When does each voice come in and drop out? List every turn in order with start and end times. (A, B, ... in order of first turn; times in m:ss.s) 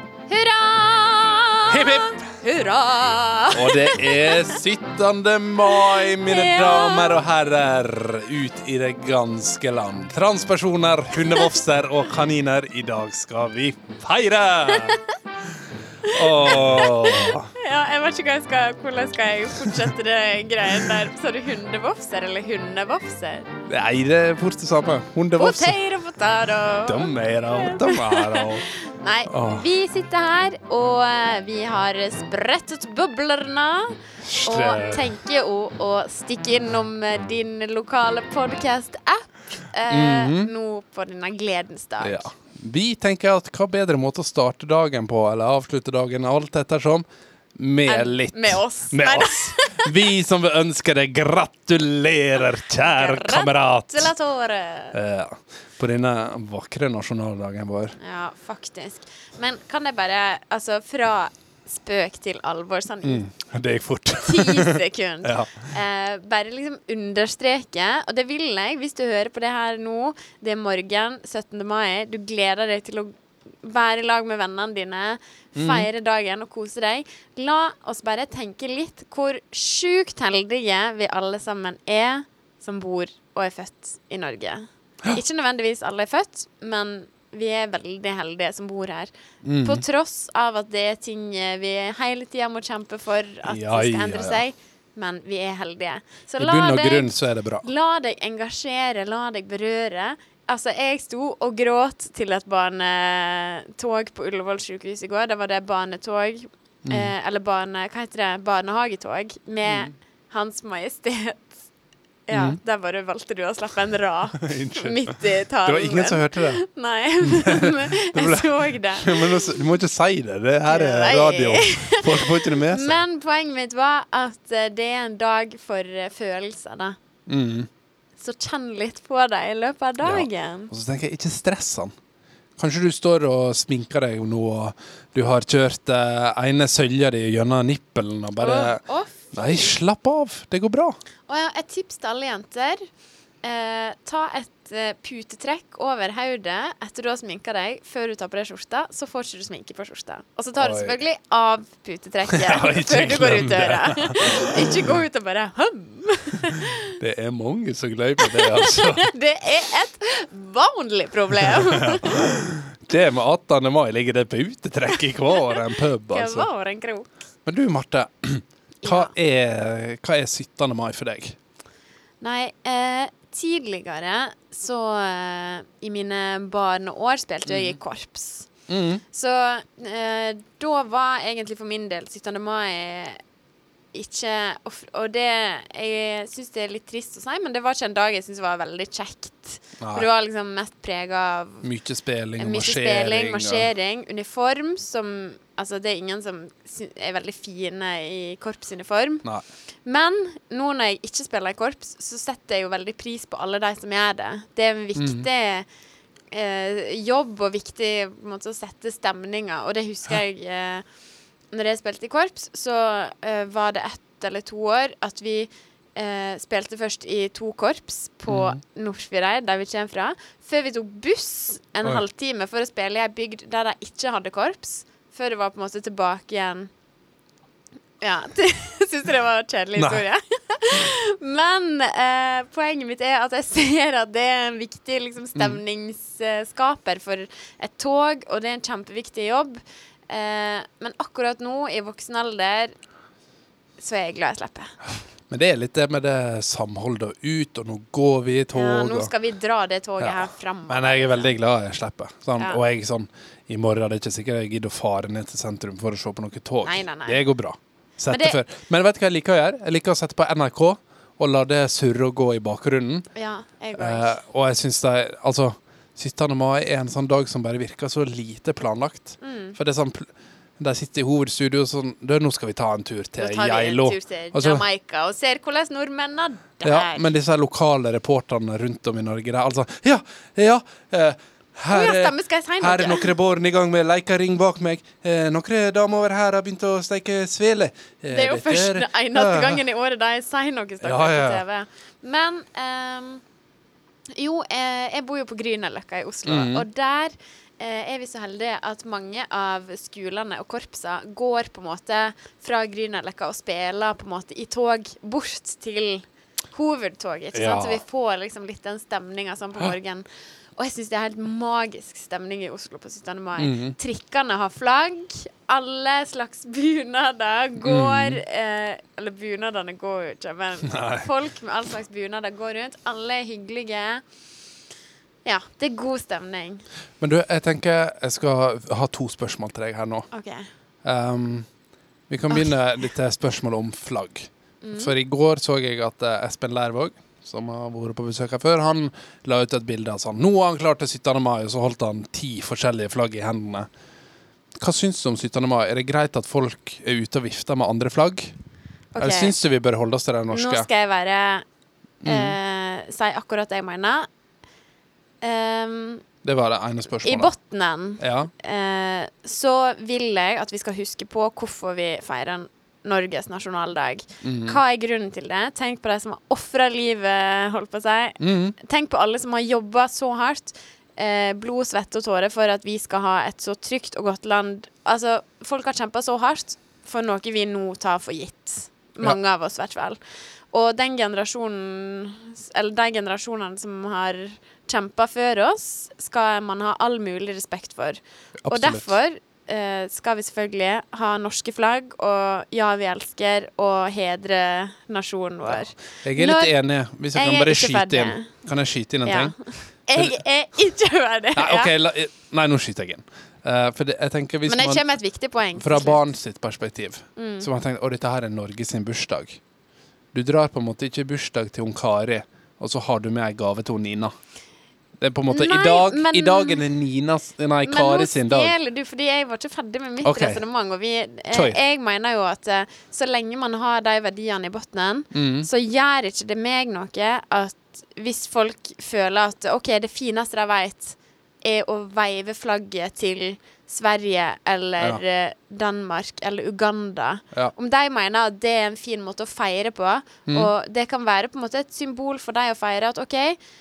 0:00.3-0:04.5 A
0:01.7-0:02.2 B
0:03.5-0:15.0 B
0:05.7-0:07.2 A
0:11.3-0:11.5 A
0:14.7-0:15.1 A
0:16.0-0:17.5 B
0:16.0-0:23.5 A
0:23.7-0:25.8 B
0:25.4-0:42.3 A
0:26.8-0:28.7 B
0:29.3-0:29.6 B
0:34.2-0:35.1 B
0:39.9-0:40.5 B
0:42.0-0:47.0 B
0:47.6-0:54.1 B
0:47.9-0:49.9 A
0:52.8-0:55.0 A
0:54.9-0:58.0 B
0:58.0-1:03.2 A
1:03.0-1:05.7 B
1:04.2-1:29.1 A
1:15.6-1:15.9 B
1:29.4-1:29.8 B
1:29.6-1:51.6 A
1:33.5-1:34.4 B
1:36.4-1:37.7 B
1:46.9-1:47.1 B
1:49.6-1:49.9 B
1:52.3-1:59.5 A
1:52.3-1:52.6 B
1:54.4-1:56.6 B
1:57.2-2:03.0 B
2:00.7-2:07.0 A
2:07.3-2:07.7 B
2:08.2-2:10.7 A
2:10.0-2:11.9 B
2:12.6-2:18.8 B
2:18.4-2:19.8 A
2:19.3-2:21.0 B
2:21.3-2:22.8 A
2:23.4-2:37.0 A
2:30.6-2:31.0 B
2:32.3-2:34.9 B
2:37.0-2:39.1 B
2:38.2-2:42.2 A
2:41.5-2:46.5 B
2:45.1-2:45.6 A
2:46.1-2:47.1 A
2:47.5-2:51.4 B
2:48.8-2:49.1 A
2:52.2-2:58.5 A
2:57.5-2:57.8 B
2:58.7-2:59.0 B
2:59.1-3:03.2 A
3:03.9-3:11.7 A
3:09.8-3:10.1 B
3:11.6-3:13.7 B
3:12.4-3:19.2 A
3:19.8-3:25.7 A
3:25.0-3:25.3 B
3:26.3-3:30.8 A
3:31.5-3:46.7 A
3:38.3-3:38.6 B
3:48.0-4:02.7 A
3:49.8-3:50.0 B
4:03.8-4:04.7 A
4:05.3-4:09.1 B
4:08.5-4:11.3 A
4:10.0-4:23.1 B
4:16.6-4:17.2 A
4:18.1-4:18.4 A
4:23.2-4:24.2 A
4:23.8-4:34.6 B
4:29.2-4:29.6 A
4:33.2-4:37.1 A
4:36.6-4:49.6 B
4:41.7-4:43.1 A
4:48.1-4:53.2 A
4:50.8-4:51.4 B
4:54.1-5:10.0 A
4:56.3-4:56.6 B
5:07.3-5:07.8 B
5:10.6-5:24.0 A
5:13.4-5:13.8 B
5:17.6-5:18.2 B
5:20.6-5:21.1 B
5:25.2-5:26.6 A
5:27.0-5:30.1 B
5:30.1-5:30.5 A
5:30.8-5:31.5 B
5:32.1-5:43.7 B
5:34.6-5:34.9 A
5:44.6-5:48.3 B
5:48.9-5:49.4 A
5:49.0-5:50.7 B
5:50.3-5:51.4 A
5:52.0-5:52.4 B
5:52.0-5:54.1 A
5:55.2-5:56.0 A
5:56.2-5:57.3 B
5:57.0-6:20.0 A
5:58.0-5:58.3 B
6:04.2-6:04.6 B
6:08.2-6:08.6 B
6:20.5-6:36.5 A
6:28.4-6:28.9 B
6:35.5-6:39.4 B
6:37.1-6:38.3 A
6:39.0-6:41.7 A
6:40.0-6:40.2 B
6:41.4-6:44.8 B
6:44.5-6:46.0 A
6:45.6-6:49.4 B
6:47.2-6:47.5 A
6:50.1-6:54.1 B
6:55.0-6:58.5 B
6:55.3-6:56.6 A
6:57.6-7:23.4 A
7:00.0-7:00.4 B
7:01.3-7:01.6 B
7:05.1-7:05.5 B